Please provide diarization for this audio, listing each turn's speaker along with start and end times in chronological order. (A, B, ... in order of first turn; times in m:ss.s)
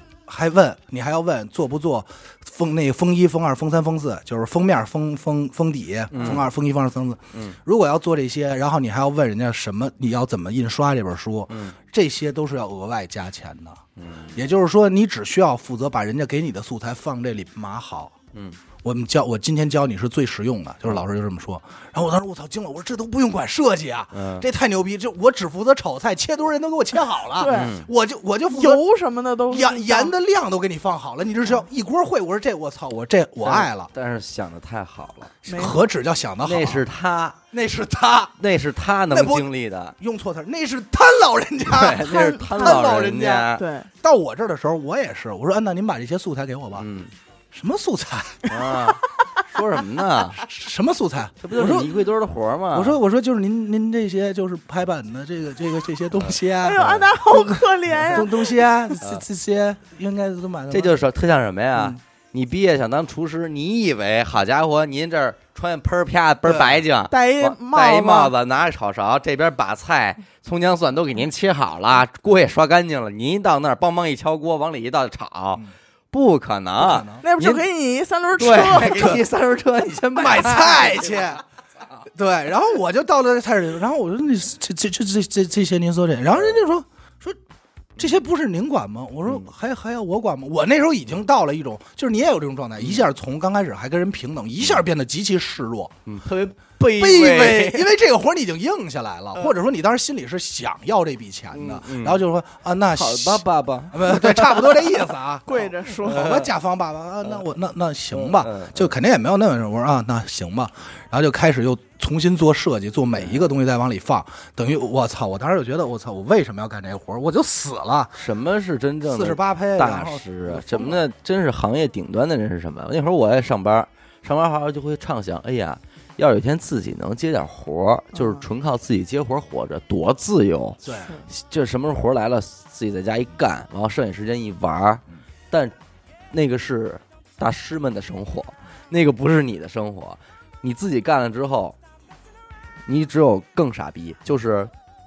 0:00.3-0:18.1 A
0:06.1-0:06.5 B
0:11.5-0:11.8 B
0:14.0-0:14.4 B
0:18.8-0:28.8 A
0:24.1-0:24.4 B
0:27.4-0:27.8 C
0:27.5-0:27.9 B
0:28.5-0:30.1 C
0:29.5-0:33.9 A
0:33.4-0:35.3 B
0:35.4-0:36.8 A
0:35.4-0:35.8 C
0:36.4-0:37.4 B
0:37.5-0:38.3 A
0:38.4-0:40.0 B
0:39.1-0:43.4 A
0:41.7-0:43.6 B
0:42.0-0:43.9 C
0:44.0-0:46.9 A
0:46.8-0:47.1 B
0:47.5-0:48.5 A
0:48.5-0:50.4 B
0:50.4-0:52.0 A
0:51.4-0:53.0 B
0:52.7-1:01.0 A
0:56.6-0:59.0 C
1:00.7-1:17.6 B
1:06.4-1:06.8 A
1:07.1-1:08.3 C
1:16.8-1:17.2 A
1:17.2-1:19.2 C
1:18.4-1:21.4 B
1:20.2-1:21.4 A
1:22.1-1:27.4 A
1:28.0-1:36.0 A
1:32.8-1:33.0 B
1:36.1-1:37.9 B
1:36.9-1:58.2 A
1:41.5-1:42.2 B
1:42.9-1:45.0 B
1:45.5-1:46.5 C
1:46.0-1:46.4 B
1:48.1-1:48.9 B
1:58.2-2:15.8 B
1:59.1-2:01.0 A
2:08.2-2:08.4 C
2:10.8-2:11.1 A
2:16.3-2:21.8 B
2:22.9-2:24.7 B